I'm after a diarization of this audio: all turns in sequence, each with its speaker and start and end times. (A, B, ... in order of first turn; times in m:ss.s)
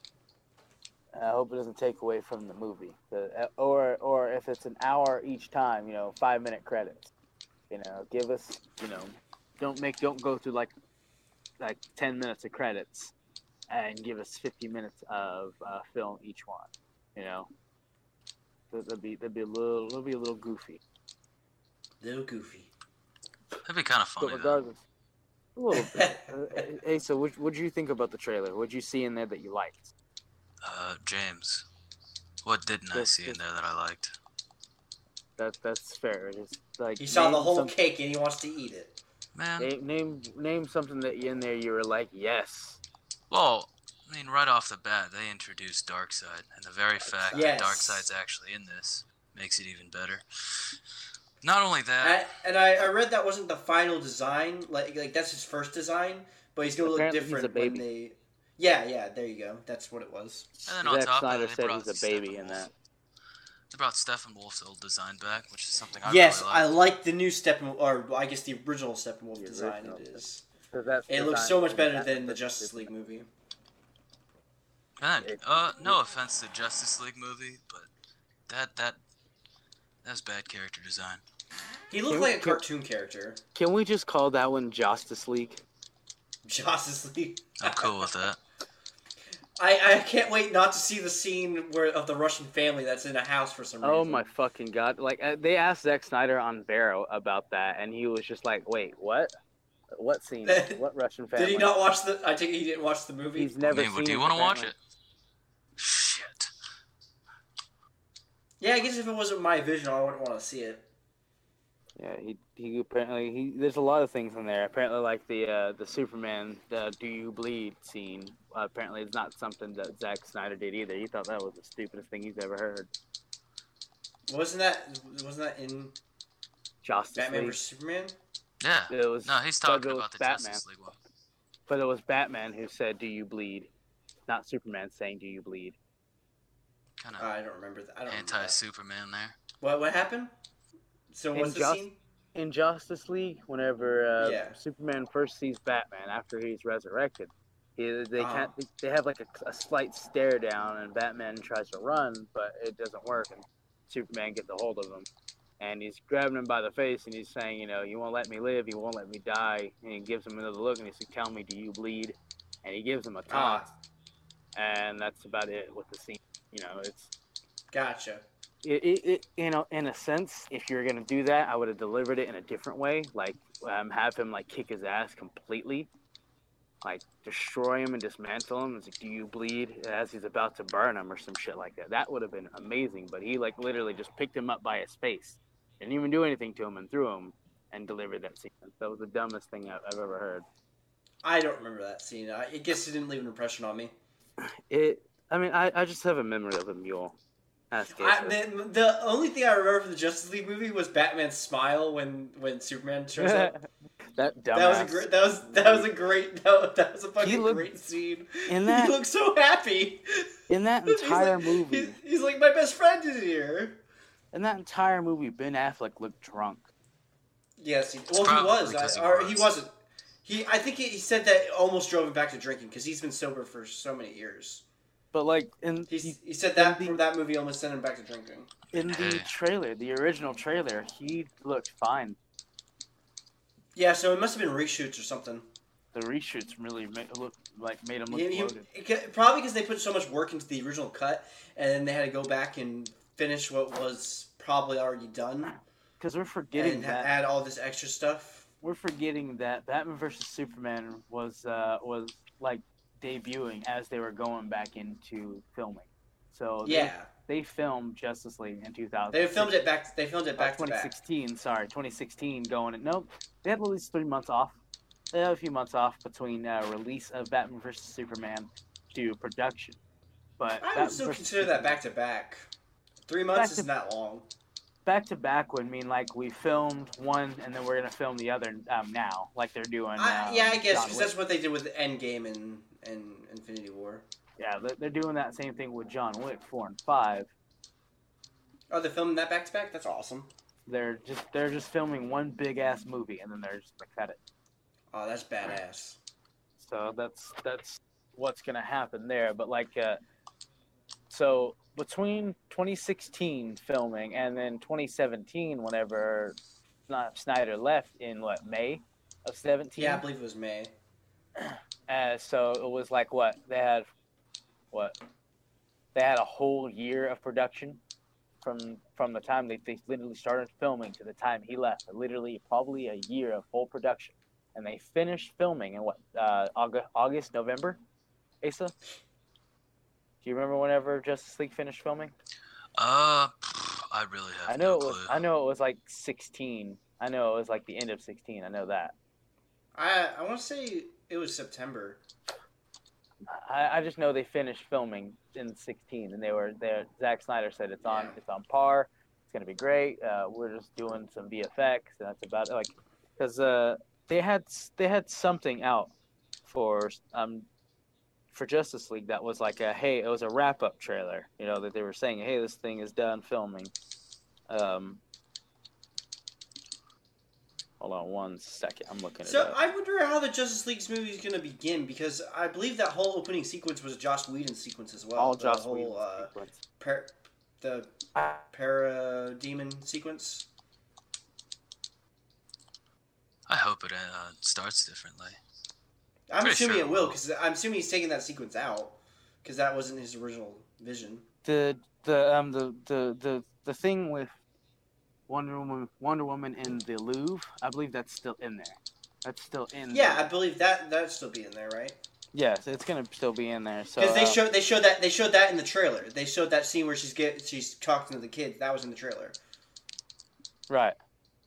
0:01.1-0:07.1 A
0:07.7-0:10.7 A
0:11.6-0:13.1 A
0:13.7-0:17.5 A
0:18.7-0:20.8 A
0:22.0-0:22.7 B
0:23.6-0:24.6 C
0:24.2-0:24.8 A
0:25.6-0:29.9 A
0:25.7-0:26.6 B
0:30.6-0:31.6 C
0:32.4-0:34.1 C
0:32.9-0:33.4 A
0:35.4-0:37.7 A
0:37.0-0:39.0 B
0:39.3-0:39.7 C
0:39.6-0:42.8 A
0:43.3-0:50.2 C
0:47.0-0:47.6 A
0:47.3-0:48.1 B
0:51.4-0:52.2 C
0:52.0-1:00.5 B
0:56.8-0:57.8 A
1:00.7-1:02.7 C
1:00.8-1:02.7 A
1:03.7-1:06.7 C
1:06.0-1:10.4 B
1:09.4-1:12.9 A
1:11.1-1:13.3 B
1:15.0-1:17.9 C
1:15.2-1:16.0 A
1:18.5-1:19.0 C
1:20.0-1:21.2 C
1:21.9-1:23.4 B
1:22.1-1:22.6 A
1:23.5-1:25.6 A
1:26.4-1:28.1 B
1:27.6-1:28.4 C
1:29.6-1:34.2 B
1:33.8-1:39.3 A
1:39.9-1:41.7 A
1:40.4-1:40.8 B
1:41.4-1:43.5 B
1:43.3-1:44.7 A
1:43.6-1:44.8 C
1:45.8-1:46.5 C
1:48.6-1:50.8 B
1:52.0-2:02.9 A
2:04.3-2:06.0 B
2:06.8-2:07.6 A
2:07.2-2:08.1 B
2:08.6-2:11.0 C
2:08.9-2:10.6 A
2:11.7-2:13.7 A
2:14.3-2:15.8 A
2:17.0-2:17.3 C
2:17.2-2:18.6 B
2:18.1-2:19.4 C
2:19.6-2:20.3 B
2:21.1-2:22.0 B
2:21.3-2:35.1 A
2:24.2-2:24.6 B
2:28.2-2:28.5 B
2:35.6-2:43.7 A
2:43.3-2:43.7 B
2:44.5-2:47.1 A
2:47.7-2:48.2 B
2:48.6-2:55.9 A
2:56.8-3:10.4 A
3:11.2-3:13.9 B
3:14.4-3:17.2 A
3:17.7-3:18.4 A
3:17.9-3:23.6 B
3:23.2-3:25.9 A
3:24.5-3:30.3 B
3:27.2-3:27.7 A
3:28.5-3:28.9 A
3:30.5-3:32.0 A
3:30.9-3:33.8 B
3:34.3-3:36.7 A
3:37.6-3:39.7 B
3:38.2-3:39.5 C
3:40.2-3:44.6 B
3:45.1-3:47.0 A
3:45.9-3:48.5 B
3:48.7-3:52.2 A
3:48.7-3:49.3 C
3:53.7-3:55.5 B
3:55.9-3:58.6 A
3:58.1-4:05.5 B
4:05.4-4:07.1 A
4:06.5-4:08.5 B
4:08.6-4:19.6 A
4:16.6-4:17.1 B
4:19.1-4:20.9 B
4:20.4-4:24.6 A
4:25.1-4:29.8 A
4:30.4-4:31.8 A
4:30.6-4:32.5 B
4:33.1-4:34.3 B
4:33.3-4:33.7 A
4:34.8-4:41.1 A
4:40.0-4:44.0 B
4:44.4-4:47.3 A
4:48.7-4:50.3 B
4:50.7-4:54.2 A
4:54.9-4:56.0 B
4:56.6-5:00.0 A
5:01.1-5:06.4 A
5:06.9-5:10.0 A
5:09.8-5:10.7 B
5:11.4-5:13.9 A
5:14.7-5:15.0 A
5:15.9-5:17.8 A
5:18.4-5:27.8 A
5:28.4-5:28.7 A
5:30.2-5:32.1 A
5:32.8-5:35.2 C
5:34.5-5:38.9 A
5:39.7-5:42.0 B
5:43.3-5:55.9 A
5:47.8-5:48.2 B
5:56.4-5:57.5 A
5:58.3-6:03.7 A
6:04.5-6:05.0 A
6:07.8-6:09.6 A
6:09.2-6:17.9 B
6:15.2-6:16.6 A
6:18.1-6:18.4 A
6:18.5-6:20.5 B
6:23.5-6:25.4 C
6:26.3-6:31.2 B
6:26.4-6:27.2 C
6:31.4-6:34.3 A
6:35.3-6:40.3 A
6:39.9-6:42.0 B
6:42.3-6:44.4 A
6:44.0-6:49.4 B
6:50.7-6:51.0 A